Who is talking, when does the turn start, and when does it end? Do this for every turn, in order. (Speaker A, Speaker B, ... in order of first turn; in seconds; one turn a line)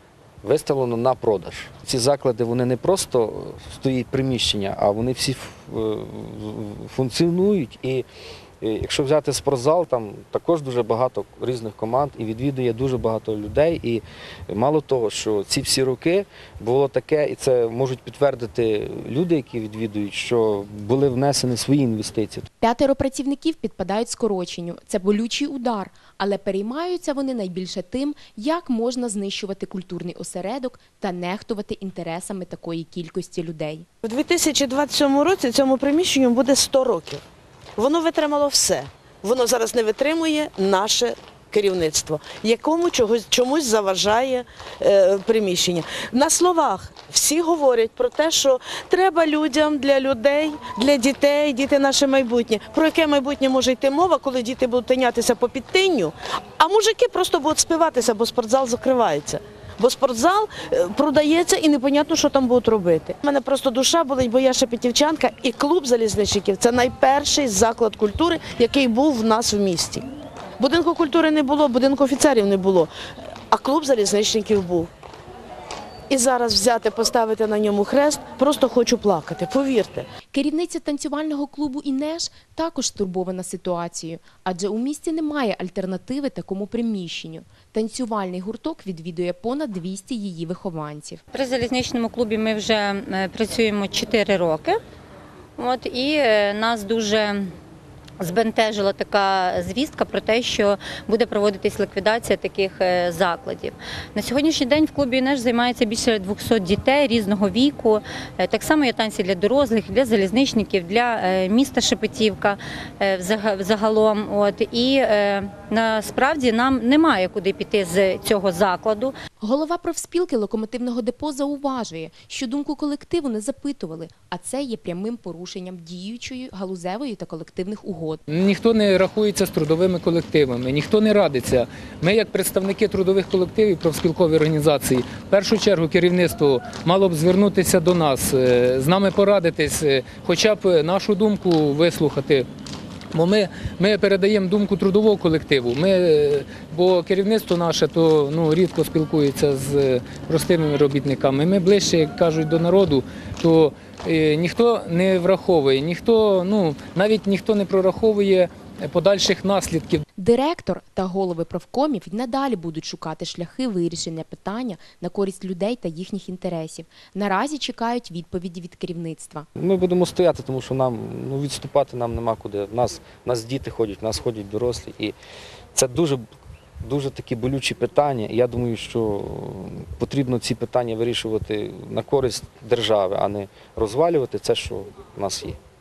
Speaker A: 0.4-8.1
Speaker A: 8.6-22.5
Speaker B: 22.6-33.9
Speaker C: 34.0-37.2
Speaker C: 37.8-70.0
Speaker C: 70.6-72.9
Speaker C: 73.5-74.9
Speaker C: 76.1-80.1
Speaker B: 80.3-91.2
Speaker D: 91.3-94.8
Speaker D: 95.6-97.5
Speaker D: 98.2-119.1
Speaker B: 119.4-128.2
Speaker E: 128.3-142.5
Speaker E: 143.1-160.0
Speaker B: 160.2-169.5
Speaker A: 169.6-175.2
Speaker A: 175.7-176.2
Speaker A: 176.8-185.6